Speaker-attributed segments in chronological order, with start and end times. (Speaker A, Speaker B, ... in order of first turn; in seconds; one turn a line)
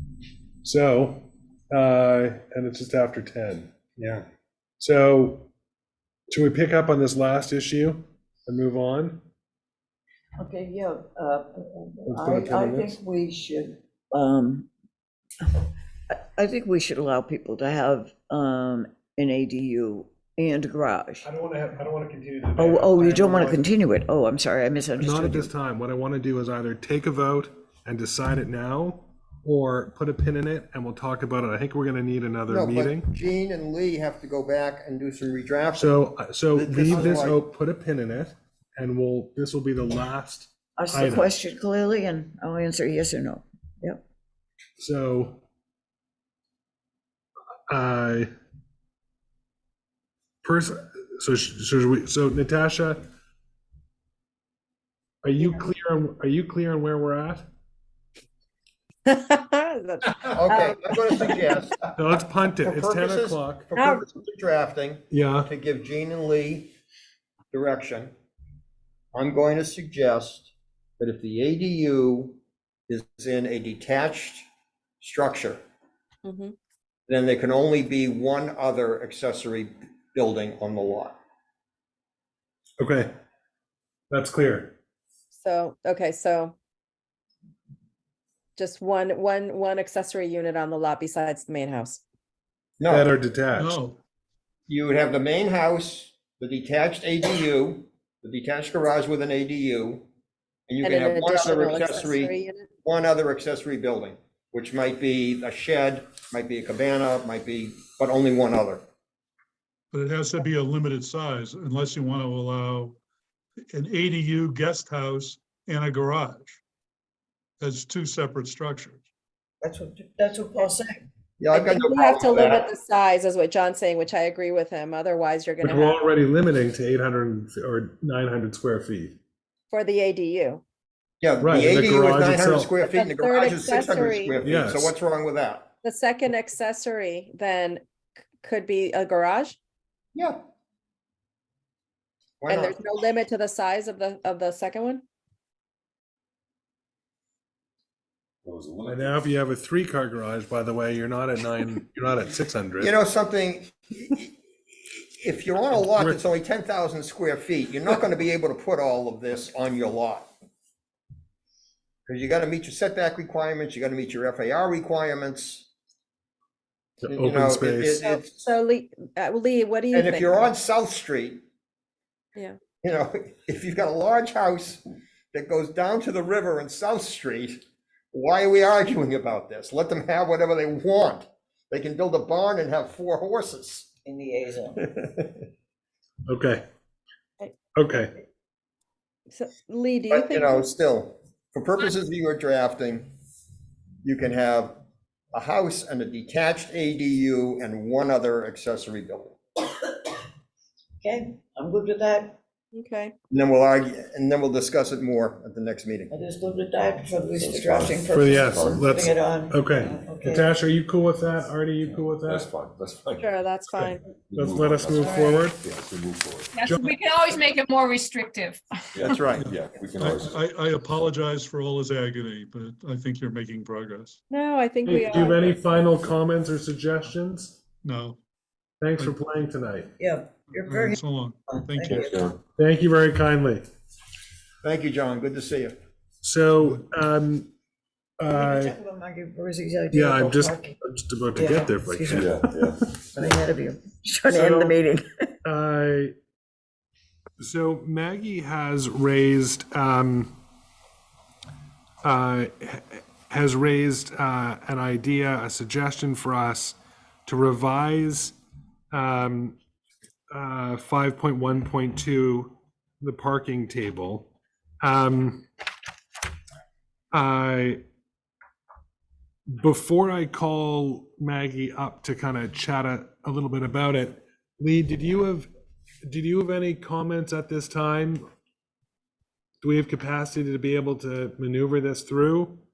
Speaker A: 0.6-4.2
Speaker A: 4.8-5.5
Speaker A: 6.3-9.2
Speaker B: 10.4-14.7
Speaker A: 12.1-13.0
Speaker B: 16.1-21.2
Speaker A: 21.2-23.7
Speaker B: 22.6-25.5
Speaker A: 25.0-33.1
Speaker C: 32.5-36.0
Speaker A: 35.8-41.3
Speaker C: 36.5-37.4
Speaker B: 40.8-44.0
Speaker A: 44.8-45.4
Speaker A: 47.7-48.3
Speaker A: 50.4-53.0
Speaker A: 55.2-57.5
Speaker D: 59.0-61.4
Speaker C: 60.3-61.8
Speaker A: 61.9-63.7
Speaker C: 62.6-66.7
Speaker D: 63.7-64.0
Speaker A: 65.1-65.5
Speaker C: 67.5-68.1
Speaker C: 69.1-74.4
Speaker C: 75.0-75.6
Speaker D: 76.2-76.5
Speaker C: 77.1-81.1
Speaker A: 82.8-83.1
Speaker A: 84.1-84.8
Speaker D: 85.3-86.5
Speaker D: 88.5-92.0
Speaker C: 92.8-93.1
Speaker A: 92.9-93.8
Speaker E: 93.6-94.0
Speaker C: 94.7-100.0
Speaker C: 100.7-108.8
Speaker D: 100.8-102.7
Speaker E: 109.9-113.0
Speaker E: 113.7-116.6
Speaker E: 117.6-119.0
Speaker B: 119.6-121.0
Speaker C: 121.4-122.7
Speaker D: 121.5-126.0
Speaker A: 125.6-129.2
Speaker D: 129.7-130.6
Speaker C: 131.2-135.7
Speaker A: 131.4-132.7
Speaker D: 132.8-134.3
Speaker A: 134.4-134.9
Speaker D: 135.8-137.8
Speaker D: 138.4-139.6
Speaker C: 142.4-142.8
Speaker D: 142.5-145.0
Speaker F: 148.4-149.3
Speaker A: 148.8-152.9
Speaker C: 152.8-160.3
Speaker A: 155.7-156.2
Speaker C: 162.1-165.7
Speaker A: 167.0-168.0
Speaker C: 167.1-168.4
Speaker D: 168.0-170.4
Speaker C: 169.9-171.4
Speaker C: 172.8-174.8
Speaker C: 175.3-177.6
Speaker C: 178.1-183.9
Speaker B: 184.0-184.8
Speaker C: 184.8-185.4
Speaker A: 186.3-186.6
Speaker A: 187.8-188.1
Speaker D: 189.3-190.7
Speaker C: 190.1-193.1
Speaker C: 194.0-194.8
Speaker C: 195.3-199.4
Speaker B: 201.0-202.4
Speaker D: 202.7-203.1
Speaker C: 203.3-206.1
Speaker B: 206.1-210.6
Speaker F: 207.3-209.2
Speaker A: 208.1-212.5
Speaker F: 212.2-216.5
Speaker D: 213.2-214.0
Speaker A: 214.3-215.6
Speaker B: 215.0-215.4
Speaker G: 216.5-218.6
Speaker F: 218.9-220.4
Speaker C: 219.0-219.5
Speaker E: 219.3-224.2
Speaker D: 224.3-225.5
Speaker A: 224.8-227.6
Speaker E: 227.8-228.2
Speaker A: 228.8-229.9
Speaker B: 230.0-232.2
Speaker E: 230.7-232.2
Speaker F: 232.0-232.4
Speaker A: 232.6-233.6
Speaker C: 234.6-235.8
Speaker A: 236.2-237.5
Speaker A: 238.2-238.7
Speaker B: 238.3-240.8
Speaker A: 239.9-242.5
Speaker B: 241.3-245.4
Speaker F: 242.1-243.3
Speaker A: 244.3-244.8
Speaker A: 245.4-246.1
Speaker A: 247.4-250.3
Speaker A: 252.0-258.4
Speaker A: 258.9-259.6
Speaker A: 260.3-265.4
Speaker A: 267.1-267.8
Speaker A: 269.5-275.5
Speaker A: 276.0-278.2
Speaker A: 279.6-282.6